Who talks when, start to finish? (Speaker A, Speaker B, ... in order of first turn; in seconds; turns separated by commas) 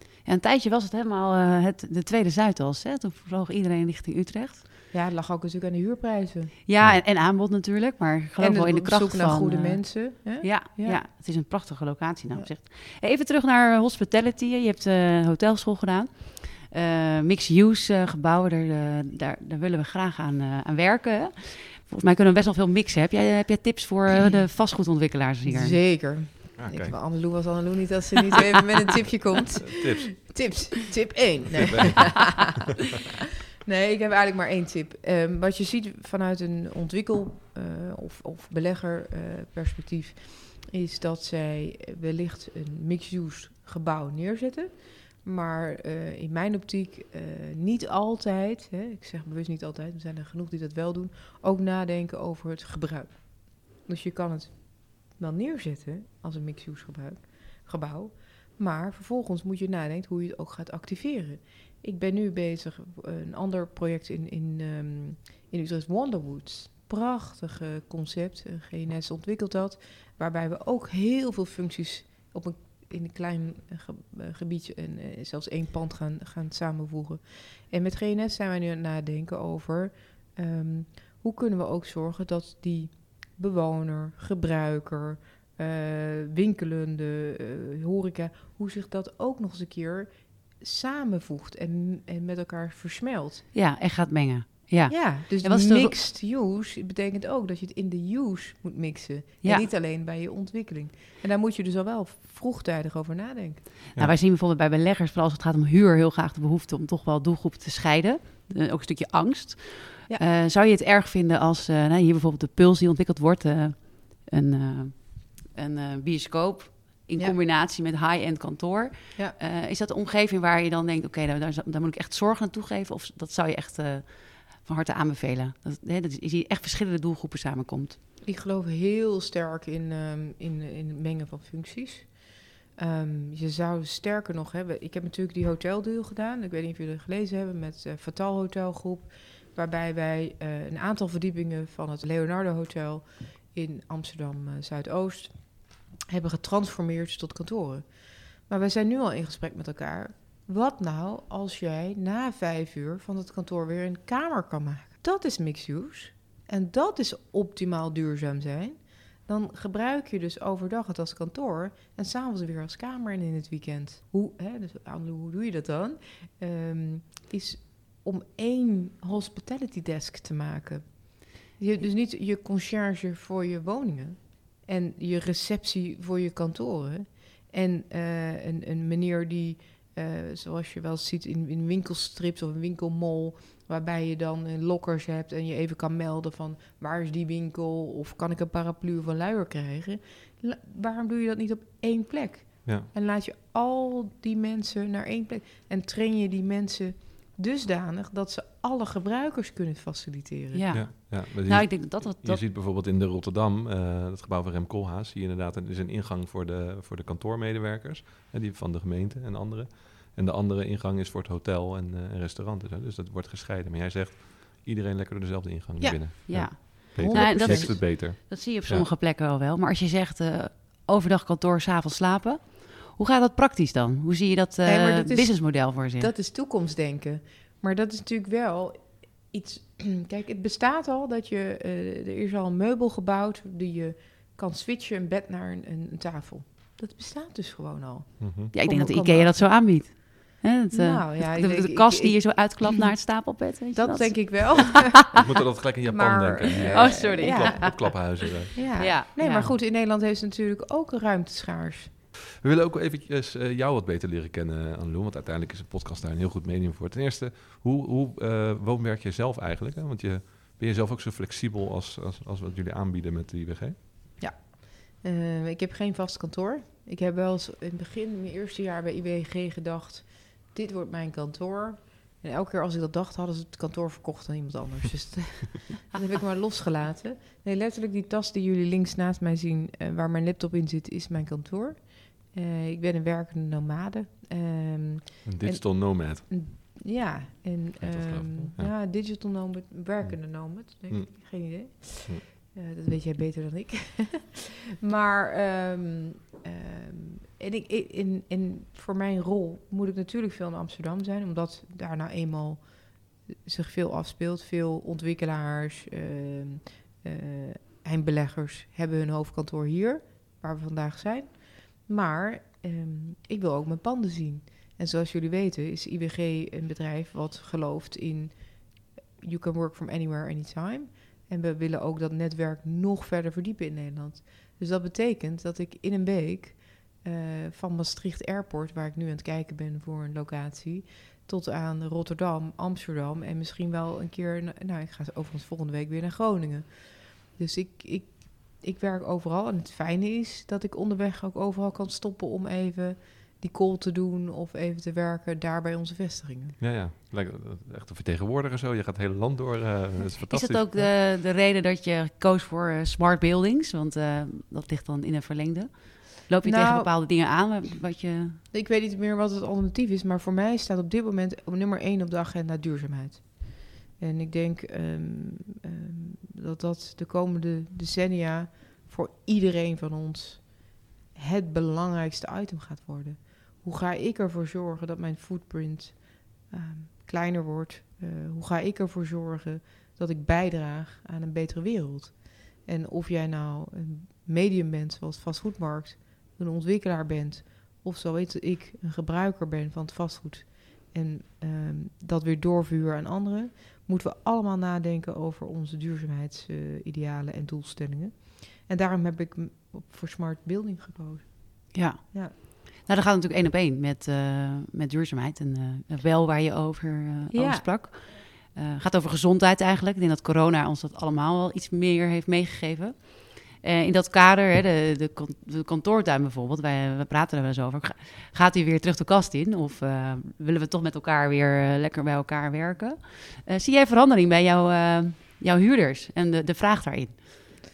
Speaker A: 0.2-4.6, Speaker B: 4.9-6.5, Speaker A: 6.7-25.8, Speaker B: 8.4-11.0, Speaker B: 25.4-32.3, Speaker C: 26.6-27.0, Speaker C: 29.6-30.3, Speaker C: 31.6-32.6, Speaker B: 33.6-93.5, Speaker A: 93.5-96.0, Speaker B: 94.9-103.7, Speaker A: 104.0-128.0, Speaker B: 128.2-200.7, Speaker A: 200.5-202.4, Speaker C: 200.7-218.9, Speaker B: 215.8-217.8, Speaker A: 216.3-226.1, Speaker B: 224.7-239.7, Speaker C: 238.2-238.5, Speaker A: 238.5-244.8, Speaker B: 240.7-242.5, Speaker B: 243.7-245.3, Speaker C: 245.2-249.0, Speaker B: 245.8-247.9, Speaker A: 246.7-249.5, Speaker B: 248.6-251.9, Speaker C: 252.4-263.8, Speaker B: 264.2-346.6, Speaker C: 285.2-286.3, Speaker C: 287.8-288.7, Speaker C: 290.0-292.2, Speaker C: 346.6-350.9, Speaker A: 350.3-358.4, Speaker B: 356.4-356.9, Speaker B: 358.5-402.3, Speaker A: 401.7-427.2, Speaker B: 407.3-407.8